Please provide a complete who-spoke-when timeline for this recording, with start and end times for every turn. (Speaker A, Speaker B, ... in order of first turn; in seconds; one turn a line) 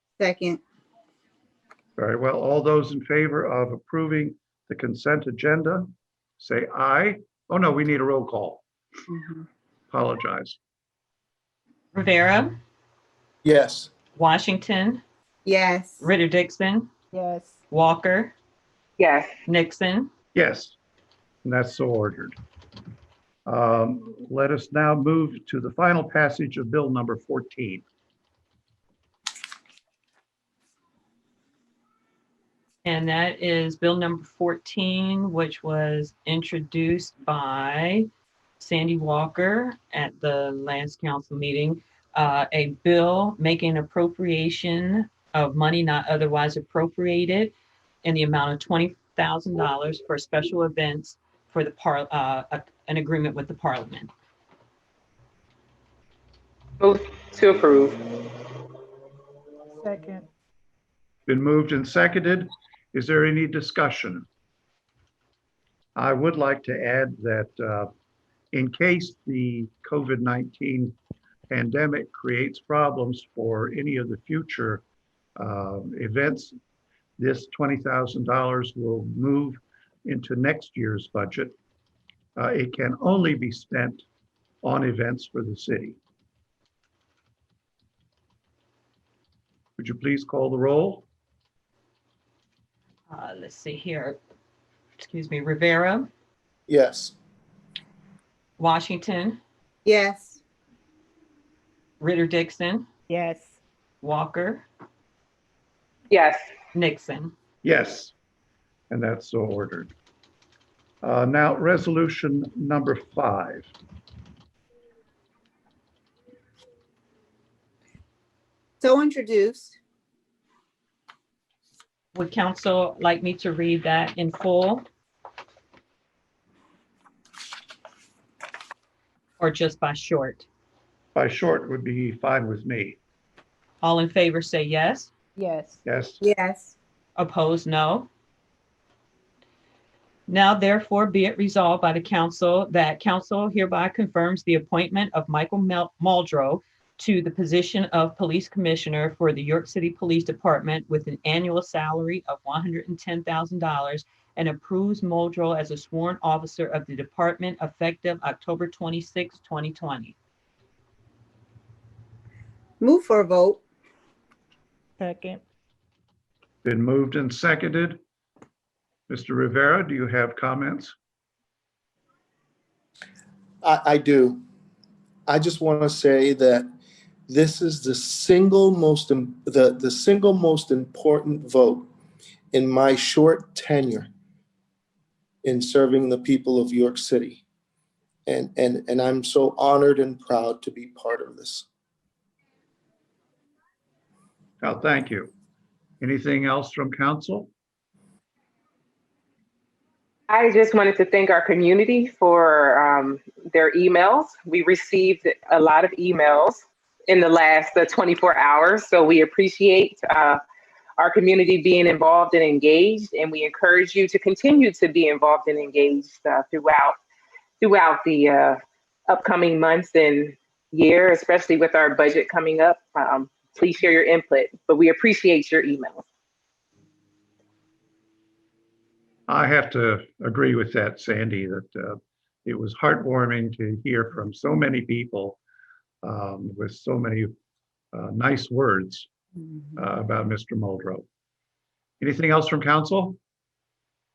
Speaker A: 0.2-0.6
Speaker B: 2.0-5.9
Speaker B: 6.4-8.6
Speaker A: 9.1-9.4
Speaker B: 9.9-10.6
Speaker C: 11.9-12.6
Speaker D: 13.4-13.9
Speaker C: 14.2-15.0
Speaker A: 15.4-16.1
Speaker C: 16.0-16.9
Speaker E: 17.1-17.6
Speaker C: 17.7-18.3
Speaker F: 19.0-19.3
Speaker C: 19.4-20.1
Speaker B: 20.3-20.8
Speaker B: 21.4-22.4
Speaker B: 23.4-27.8
Speaker C: 32.8-38.1
Speaker C: 38.6-54.1
Speaker F: 56.8-58.1
Speaker E: 59.8-60.2
Speaker B: 61.3-64.2
Speaker B: 66.0-67.9
Speaker B: 68.5-71.0
Speaker B: 71.5-74.8
Speaker B: 75.4-76.5
Speaker B: 77.2-81.5
Speaker B: 82.3-84.0
Speaker B: 84.6-86.0
Speaker B: 89.8-91.0
Speaker C: 93.1-94.2
Speaker C: 95.0-96.1
Speaker D: 96.7-97.1
Speaker C: 98.6-99.4
Speaker A: 99.8-100.4
Speaker C: 102.0-102.9
Speaker E: 103.1-103.6
Speaker C: 104.0-104.7
Speaker F: 106.1-106.4
Speaker C: 106.7-107.3
Speaker B: 107.6-108.1
Speaker B: 108.9-109.9
Speaker B: 111.0-113.7
Speaker A: 118.8-119.8
Speaker C: 122.1-124.8
Speaker C: 129.4-130.5
Speaker B: 131.1-133.0
Speaker C: 133.8-135.1
Speaker E: 135.4-135.8
Speaker B: 135.8-136.2
Speaker A: 136.2-136.7
Speaker C: 137.2-138.1
Speaker C: 140.3-160.1
Speaker A: 162.8-163.6
Speaker E: 165.0-165.4
Speaker B: 166.6-168.0
Speaker B: 169.1-170.9
Speaker D: 173.6-174.4
Speaker D: 175.3-176.7
Speaker D: 177.3-181.9
Speaker D: 182.5-184.1
Speaker D: 185.4-187.4
Speaker D: 188.2-191.7
Speaker B: 194.6-195.3
Speaker B: 196.0-197.5
Speaker F: 200.3-210.4
Speaker F: 211.0-217.0
Speaker F: 217.6-226.0
Speaker B: 229.3-235.4
Speaker B: 236.0-237.3
Speaker B: 237.9-239.1
Speaker B: 239.8-241.0
Speaker B: 242.0-243.2